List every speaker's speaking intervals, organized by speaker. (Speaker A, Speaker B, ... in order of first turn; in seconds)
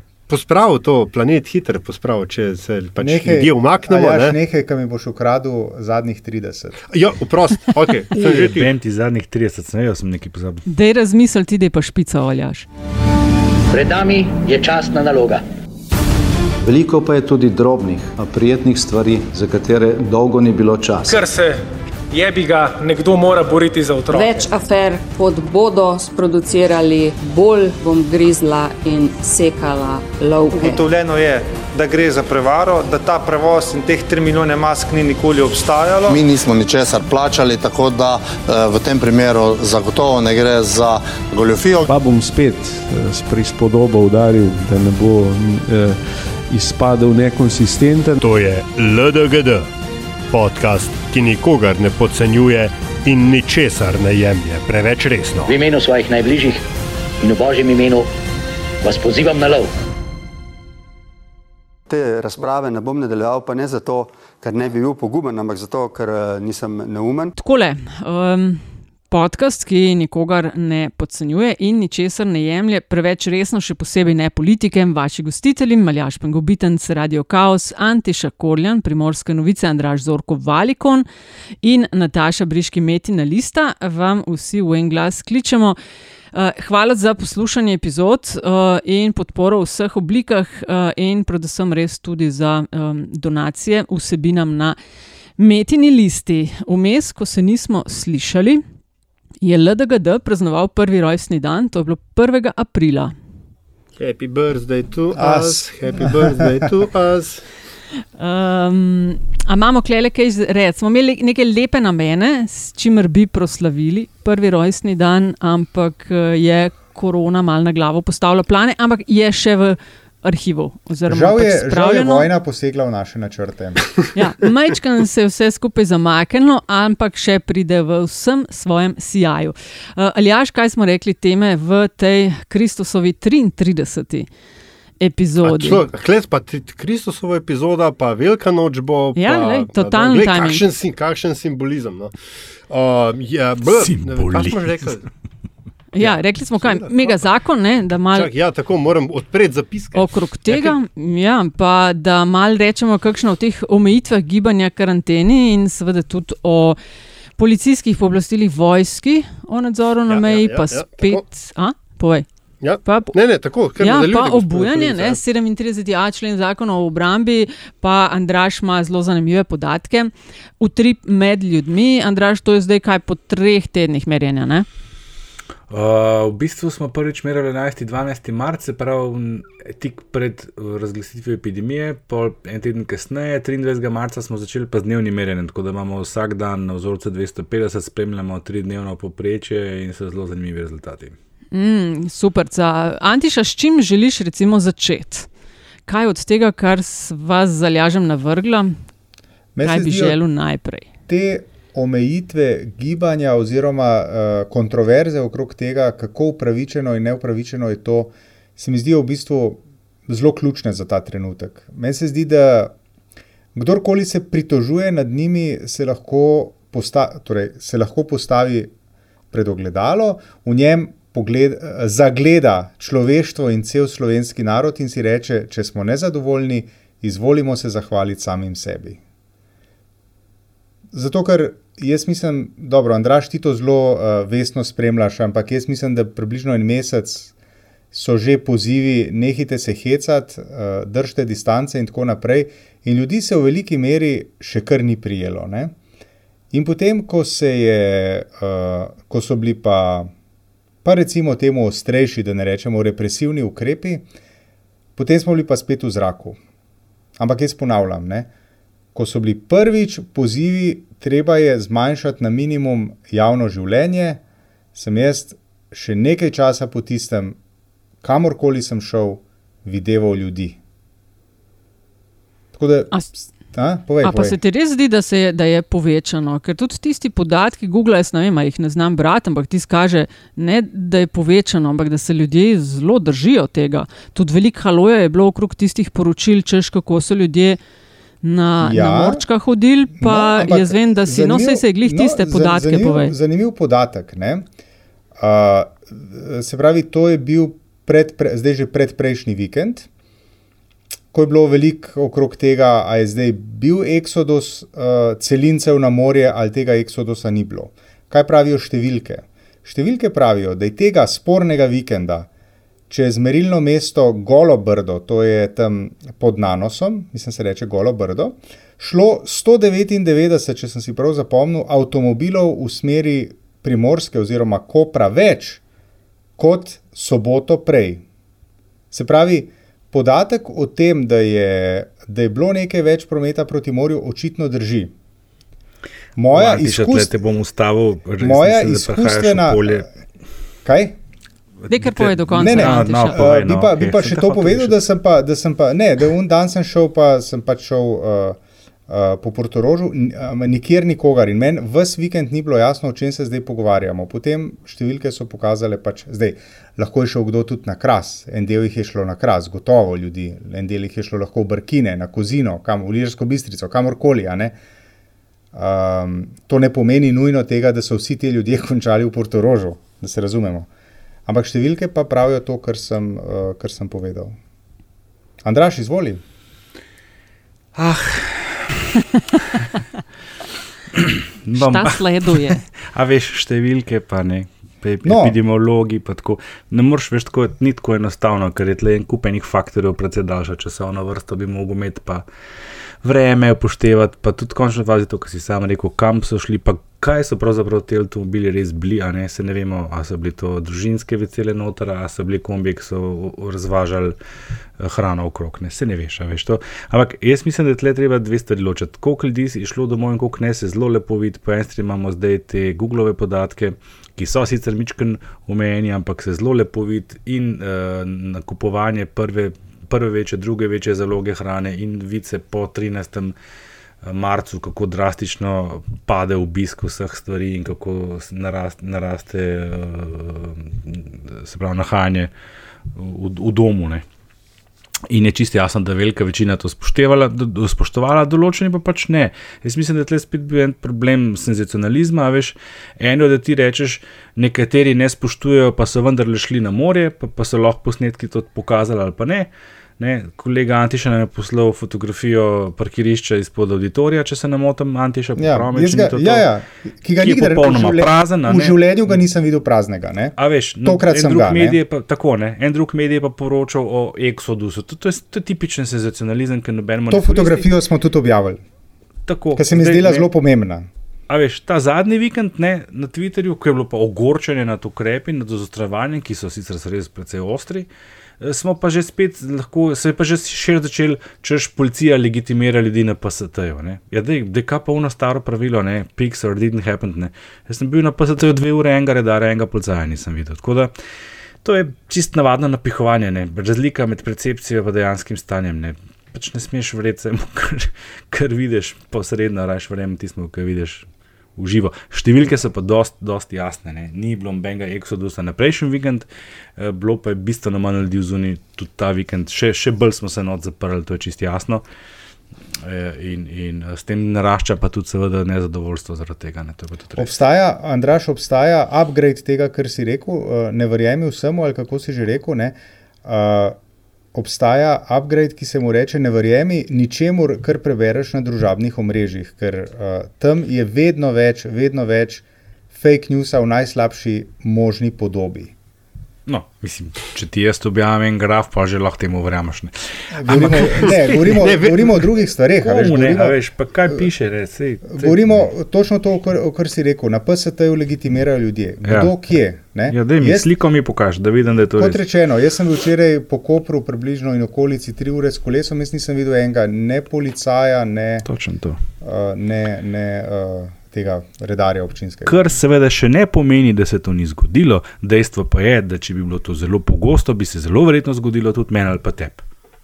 Speaker A: 0.3-4.4, 6.9-8.7, 48.2-49.7, 50.3-55.6, 104.0-107.5, 135.4-142.1, 142.7-145.1, 146.0-147.2, 148.1-150.8, 160.1-161.2, 162.6-165.2, 540.5-542.1
Speaker B: 3.0-6.8, 105.1-106.5, 121.1-123.9, 199.6-200.2, 201.1-212.8, 213.6-218.7, 219.3-229.0, 230.9-237.3, 237.9-245.8, 246.5-250.1, 250.8-254.1, 255.0-256.4, 257.2-258.3, 258.9-264.2, 264.7-267.4, 268.0-270.6, 272.5-273.0, 273.5-274.4, 288.6-289.2, 289.9-294.5, 295.2-299.9, 301.1-312.3, 312.9-325.6, 326.4-328.0, 328.9-334.9, 336.2-337.1, 338.2-339.9, 340.6-341.0, 342.3-364.6, 365.5-370.7, 371.3-374.4, 375.4-376.2, 385.0-385.4, 455.4-461.8, 467.1-468.6, 469.6-470.9, 517.2-523.8, 524.3-535.7, 540.3-543.6, 545.1-550.7, 552.0-558.5, 559.2-562.7
Speaker C: 8.1-10.6, 143.7-145.0, 175.7-191.2, 336.3-339.9, 341.6-344.8, 377.8-379.0, 381.0-392.2, 393.0-404.2, 404.8-423.4, 424.0-432.3, 433.0-434.0, 435.1-456.5, 457.2-458.9, 460.4-467.7, 469.3-470.3, 471.3-477.9, 478.4-490.9, 491.6-511.8, 512.8-517.3, 536.5-541.7, 542.8-545.7, 549.0-549.3, 550.1-552.2, 558.5-559.0, 562.5-569.6
Speaker D: 10.7-12.7, 67.4-81.1, 81.6-85.8, 86.3-94.8, 95.4-98.6, 99.4-103.1, 108.2-122.3, 124.1-134.3, 135.0-135.8, 139.2-140.6, 145.9-148.3, 149.9-156.8, 157.4-162.3, 162.8-163.2, 163.8-174.7, 191.5-195.3, 195.9-198.8, 199.6-200.9, 274.0-287.6, 288.2-293.1, 341.7-343.2, 381.6-382.6
Speaker E: 13.7-15.4, 55.5-56.6, 57.2-58.1, 58.8-59.7
Speaker F: 16.6-21.2
Speaker G: 21.1-21.6, 22.1-24.4
Speaker H: 24.1-30.8
Speaker I: 30.6-36.2
Speaker J: 36.1-41.9
Speaker K: 41.9-48.1
Speaker L: 61.9-67.3